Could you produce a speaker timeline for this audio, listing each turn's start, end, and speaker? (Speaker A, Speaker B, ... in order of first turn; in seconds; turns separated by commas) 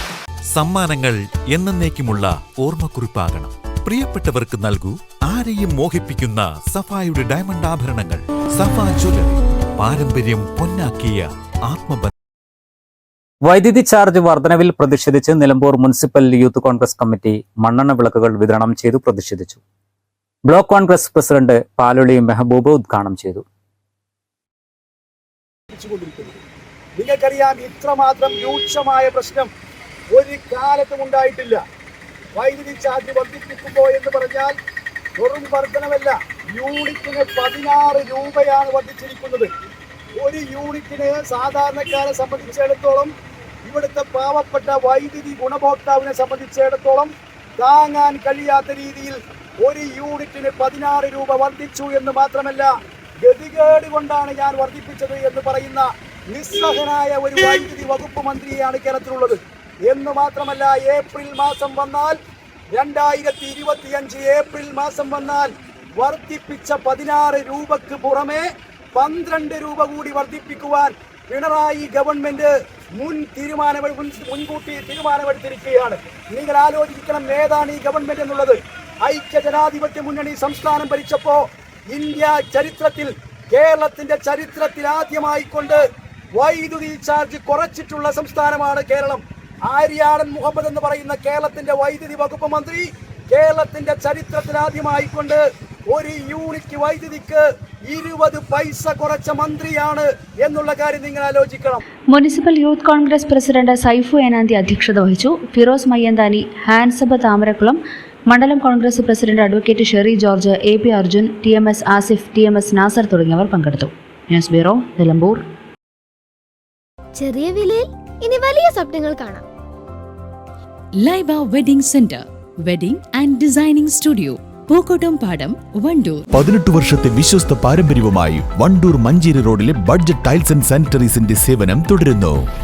Speaker A: 0.5-12.1, Speaker B: 13.5-19.6, Speaker B: 20.5-23.4, Speaker C: 25.7-26.4, Speaker C: 27.0-29.5, Speaker C: 30.1-31.6, Speaker C: 32.4-34.5, Speaker C: 35.2-39.5, Speaker C: 40.2-43.1, Speaker C: 43.7-52.7, Speaker C: 53.2-62.2, Speaker C: 62.7-85.8, Speaker C: 86.4-101.8, Speaker D: 102.1-107.8, Speaker D: 108.3-115.4, Speaker E: 117.2-119.5, Speaker F: 121.0-126.2, Speaker G: 126.3-132.4